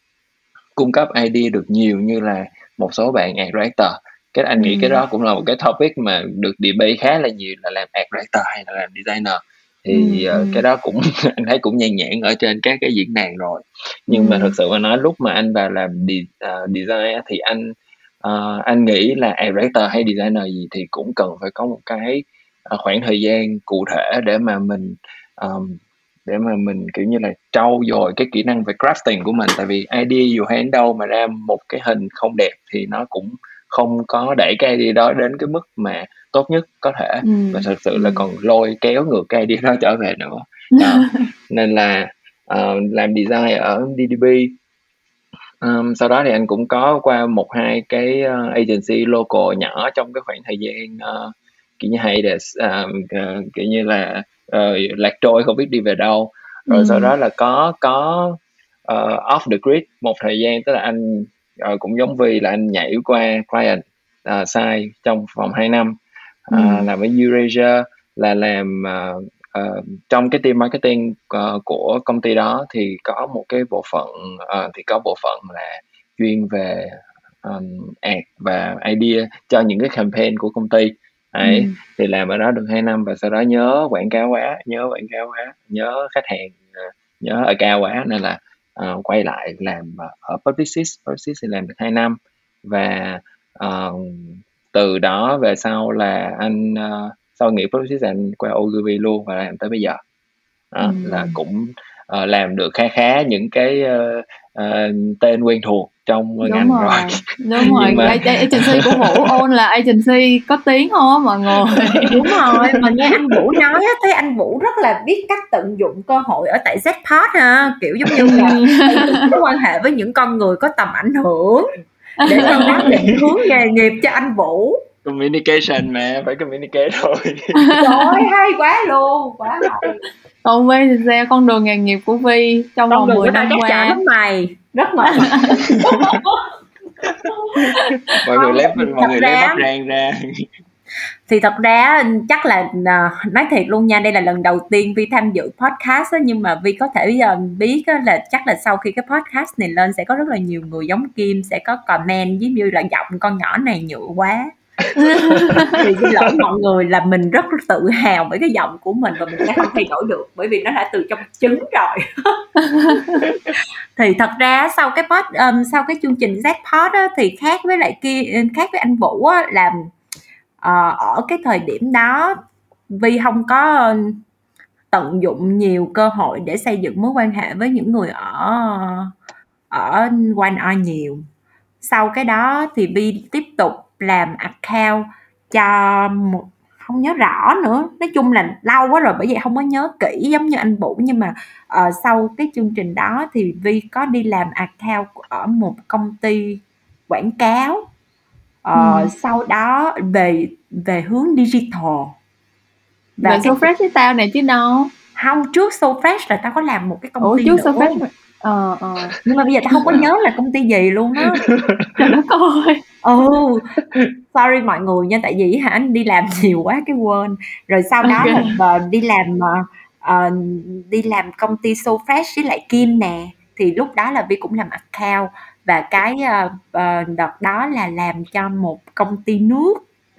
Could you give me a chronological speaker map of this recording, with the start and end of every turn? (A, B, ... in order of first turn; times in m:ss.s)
0:00.8-0:44.6 A
0:04.6-0:05.0 B
0:09.9-0:10.6 B
0:14.1-0:14.6 B
0:37.2-0:38.2 B
0:40.8-0:41.2 B
0:45.6-1:06.0 A
0:56.7-0:57.1 B
1:06.5-1:40.0 A
1:06.5-1:06.9 B
1:21.4-1:21.8 B
1:40.7-1:49.4 A
1:40.8-1:41.4 B
1:46.4-1:52.9 B
1:47.8-1:48.1 C
1:51.5-1:52.2 A
1:52.1-2:01.7 C
1:58.1-1:58.5 A
1:58.2-1:59.3 B
2:02.2-2:03.0 B
2:02.2-2:04.8 C
2:02.3-2:03.2 A
2:05.0-2:07.8 A
2:07.6-2:08.3 B
2:07.8-2:10.0 C
2:10.4-2:14.0 B
2:12.9-2:16.4 C
2:15.1-2:15.6 B
2:17.1-2:20.5 A
2:18.3-2:19.6 C
2:21.3-2:34.5 C
2:35.0-2:35.8 B
2:35.3-2:36.3 A
2:35.8-2:42.4 C
2:42.6-2:43.3 B
2:44.0-2:49.9 C
2:50.6-2:52.4 C
2:52.9-2:54.2 C
2:54.9-2:59.1 C
2:59.7-3:01.2 C
3:01.8-3:17.8 C
3:18.6-3:22.2 C
3:18.8-3:19.1 B
3:23.2-3:23.7 C
3:23.2-3:24.9 B
3:25.2-3:28.0 C
3:27.2-3:29.2 B
3:29.2-3:31.5 C
3:29.7-3:30.0 B
3:31.4-3:32.0 A
3:32.0-3:32.8 B
3:33.0-3:49.8 C
3:38.0-3:38.6 B